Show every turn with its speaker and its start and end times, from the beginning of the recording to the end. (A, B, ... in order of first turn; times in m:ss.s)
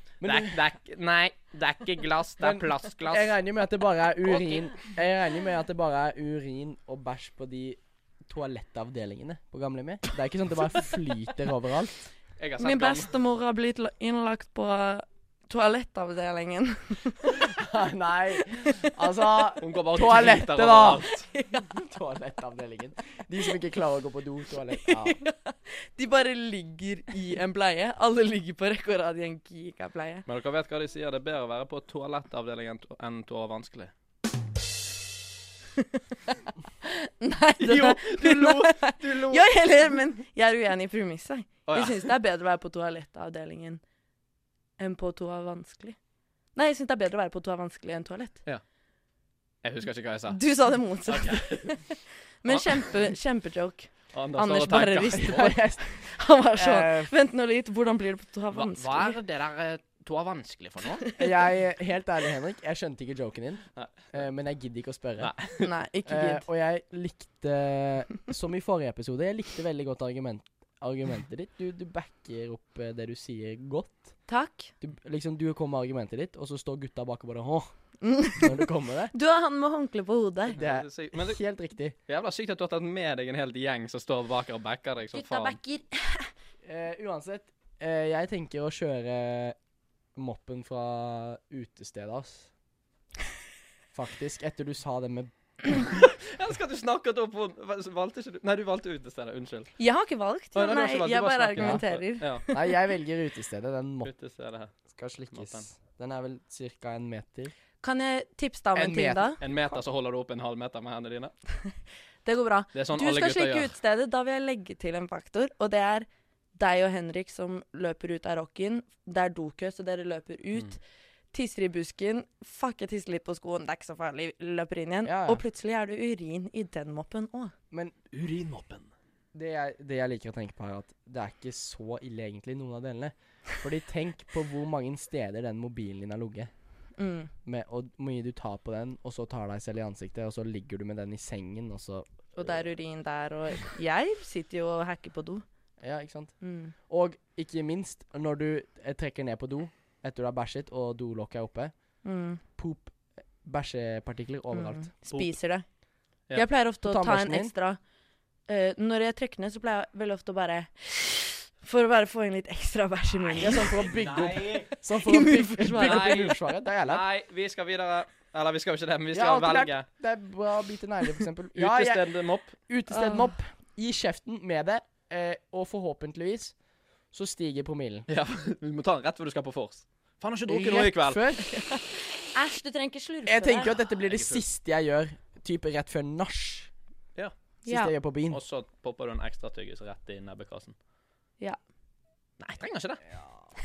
0:00.2-0:00.6 A
0:00.2-0:03.4 B
0:02.4-0:12.1 A
0:04.3-0:04.6 B
0:12.4-0:13.1 B
0:12.6-0:17.5 C
0:17.5-0:21.1 A
0:19.6-0:21.3 B
0:21.2-0:21.8 C
0:21.7-0:25.2 A
0:24.8-0:30.2 C
0:30.2-0:33.9 B
0:37.2-0:43.8 C
0:37.6-0:39.8 B
0:41.7-0:42.1 B
0:44.8-0:46.0 C
0:46.5-0:48.4 C
0:49.6-0:53.0 B
0:50.3-0:59.2 C
0:54.1-0:55.5 B
0:55.2-0:57.1 A
0:58.5-1:01.0 B
1:01.2-1:19.1 A
1:03.7-1:04.2 B
1:05.2-1:05.7 B
1:05.6-1:06.4 C
1:14.3-1:14.7 C
1:18.0-1:20.6 C
1:20.6-1:21.4 B
1:20.6-1:22.0 A
1:22.0-1:25.6 B
1:25.1-1:26.3 C
1:26.6-1:29.6 A
1:30.1-1:32.5 A
1:33.9-1:35.3 A
1:35.9-1:39.8 B
1:39.8-1:42.7 C
1:40.5-1:42.4 B
1:42.5-1:44.1 A
1:44.0-1:45.6 B
1:44.7-1:47.5 A
1:47.8-1:49.7 C
1:48.7-1:49.3 A
1:49.4-1:51.3 B
1:52.2-2:00.8 C
1:52.7-1:53.7 B
2:01.3-2:07.5 C
2:05.0-2:05.4 A
2:08.1-2:08.9 B
2:09.3-2:16.5 A
2:17.0-2:17.3 C
2:17.4-2:22.7 A
2:22.4-2:25.4 C
2:25.8-2:32.0 A
2:26.4-2:26.7 C
2:32.0-2:32.4 C
2:32.5-2:34.9 A
2:34.5-2:35.7 C
2:35.1-2:35.4 B
2:36.3-2:37.8 C
2:36.8-2:37.5 A
2:38.5-2:43.8 C
2:43.4-2:47.0 A
2:43.9-2:44.7 B
2:44.9-2:46.2 C
2:45.7-2:49.9 B
2:49.1-2:58.0 A
2:51.5-2:52.6 B
2:52.9-2:53.4 C
2:58.1-3:01.5 B
3:00.5-3:01.5 A
3:01.5-3:01.8 C
3:02.3-3:03.7 C
3:03.2-3:06.7 A
3:04.1-3:04.4 B
3:07.6-3:07.9 C
3:07.6-3:08.4 A
3:08.2-3:10.8 B
3:12.4-3:13.2 B